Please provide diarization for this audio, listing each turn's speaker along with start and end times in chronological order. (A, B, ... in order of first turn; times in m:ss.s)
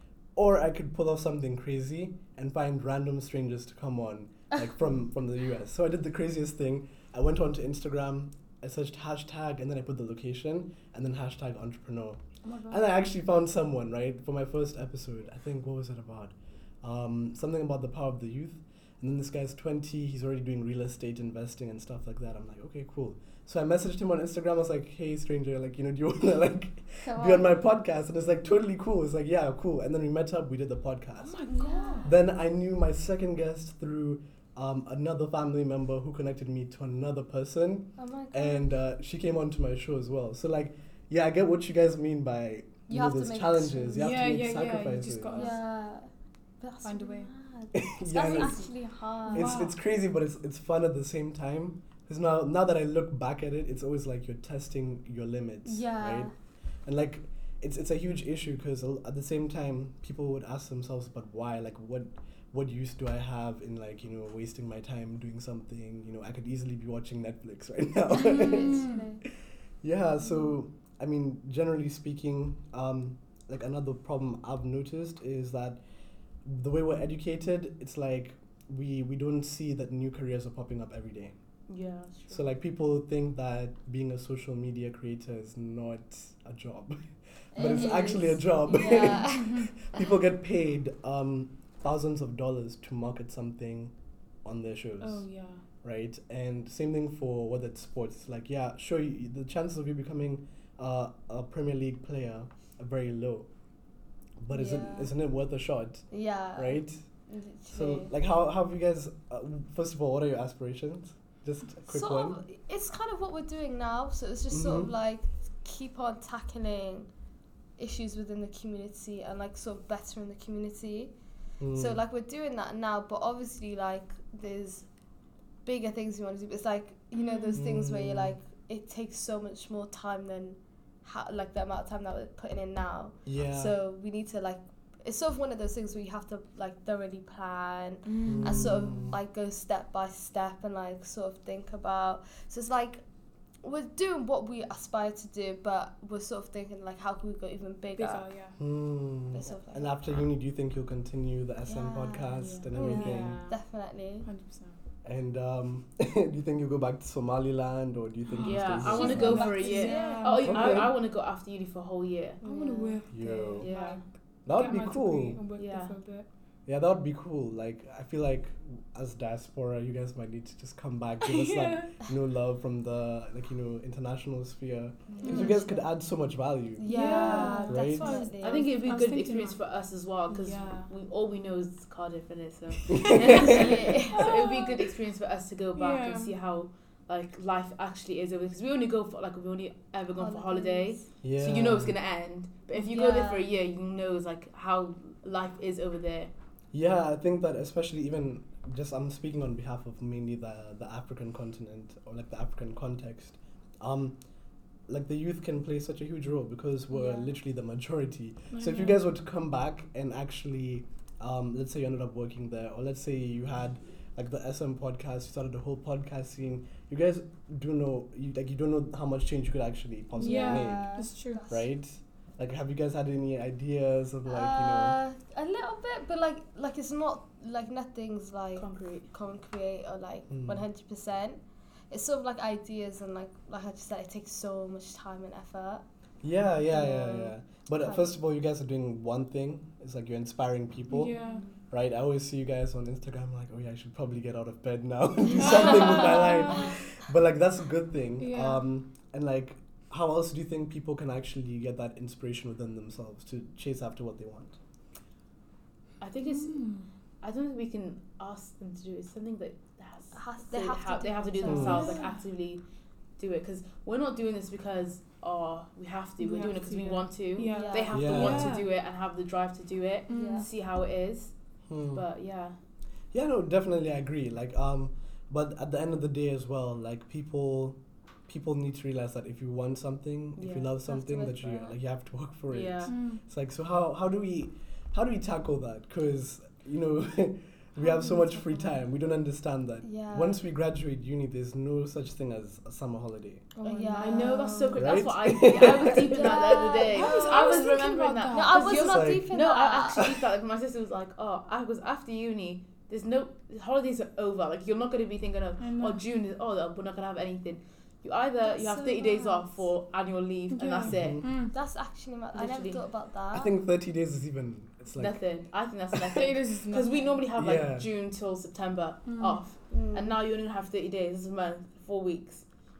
0:00.3-0:45.4 A
0:27.0-0:27.6 B
0:31.4-0:32.1 C
0:31.5-0:32.1 B
0:31.5-0:31.9 D
0:38.0-0:38.7 B
0:42.9-0:44.1 B
0:44.0-0:45.6 D
0:45.3-0:49.5 B
0:46.8-0:47.3 D
0:47.7-0:48.6 A
0:49.3-0:49.7 D
0:49.3-0:56.3 A
0:55.6-0:56.3 B
0:56.8-1:09.0 A
1:08.1-1:09.2 B
1:08.3-1:09.0 D
1:09.8-1:15.8 A
1:16.4-1:21.4 A
1:21.7-1:22.4 C
1:22.3-1:35.3 A
1:27.5-1:29.8 B
1:28.9-1:29.7 D
1:35.0-1:35.6 D
1:35.8-1:43.5 A
1:44.4-1:47.0 A
1:44.5-1:45.1 B
1:46.1-1:48.1 B
1:47.7-1:52.4 A
1:51.9-1:57.1 B
1:54.5-1:54.9 A
1:57.8-2:01.1 B
2:01.6-2:02.0 A
2:01.7-2:04.9 B
2:05.6-2:23.0 B
2:07.2-2:07.6 D
2:07.5-2:08.4 A
2:13.2-2:13.7 A
2:18.0-2:18.8 D
2:18.2-2:19.2 A
2:23.6-2:28.3 B
2:28.0-2:28.6 D
2:28.6-2:33.4 A
2:29.3-2:29.9 B
2:31.6-2:34.3 B
2:32.4-2:34.8 D
2:35.0-2:39.6 A
2:38.3-2:40.8 D
2:38.4-2:44.0 C
2:39.0-2:40.5 B
2:40.4-2:40.9 A
2:42.4-2:46.3 D
2:43.1-2:43.9 A
2:44.4-2:45.4 A
2:45.6-2:46.0 C
2:46.6-2:56.8 A
2:51.2-2:52.0 D
2:55.1-2:55.6 C
2:55.2-2:55.8 B
2:55.2-2:55.6 D
2:56.8-2:58.7 B
2:56.9-2:59.6 D
2:56.9-3:16.3 C
2:57.6-2:58.2 A
3:00.3-3:00.9 D
3:02.9-3:04.8 D
3:03.2-3:03.5 A
3:03.6-3:04.2 B
3:05.8-3:06.3 D
3:10.2-3:11.0 B
3:11.2-3:12.0 A
3:12.8-3:13.5 B
3:16.7-3:24.2 A
3:24.9-3:45.0 A
3:26.9-3:27.3 B
3:28.5-3:29.0 D
3:40.2-3:41.4 D
3:40.2-3:41.6 B
3:44.3-3:55.8 B
3:48.6-3:49.1 C
3:50.3-3:50.6 A
3:56.2-4:14.6 A
3:56.7-3:58.1 B
4:00.9-4:01.4 D
4:01.2-4:01.6 C
4:05.4-4:06.8 D
4:05.6-4:06.7 B
4:08.2-4:08.6 D
4:16.0-4:16.7 C
4:16.2-4:16.9 D
4:17.2-4:22.6 C
4:20.1-4:22.1 B
4:21.4-4:21.9 A
4:21.6-4:22.2 D
4:23.2-4:32.6 C
4:26.2-4:28.7 D
4:27.5-4:28.1 B
4:27.9-4:28.6 A
4:30.1-4:30.4 D
4:30.1-4:30.5 B
4:31.7-4:32.0 A
4:33.1-4:53.5 A
4:40.4-4:40.7 C
4:40.8-4:41.7 B
4:42.5-4:42.9 C
4:42.9-4:43.2 D
4:47.8-4:48.7 D
4:49.8-4:50.4 B
4:53.6-4:54.7 D
4:53.6-4:54.8 B
4:53.9-5:11.3 C
4:54.7-4:56.2 A
4:56.0-4:57.6 B
4:56.3-4:58.8 D
4:58.3-5:00.1 B
4:58.7-4:59.4 A
5:05.6-5:06.0 D
5:08.4-5:09.6 B
5:10.6-5:11.5 D
5:10.8-5:11.2 A
5:11.5-5:13.5 B
5:12.3-5:12.8 C
5:13.3-5:15.2 A
5:14.9-5:22.5 C
5:16.1-5:17.2 D
5:17.4-5:17.9 A
5:19.0-5:19.4 D
5:19.7-5:20.2 B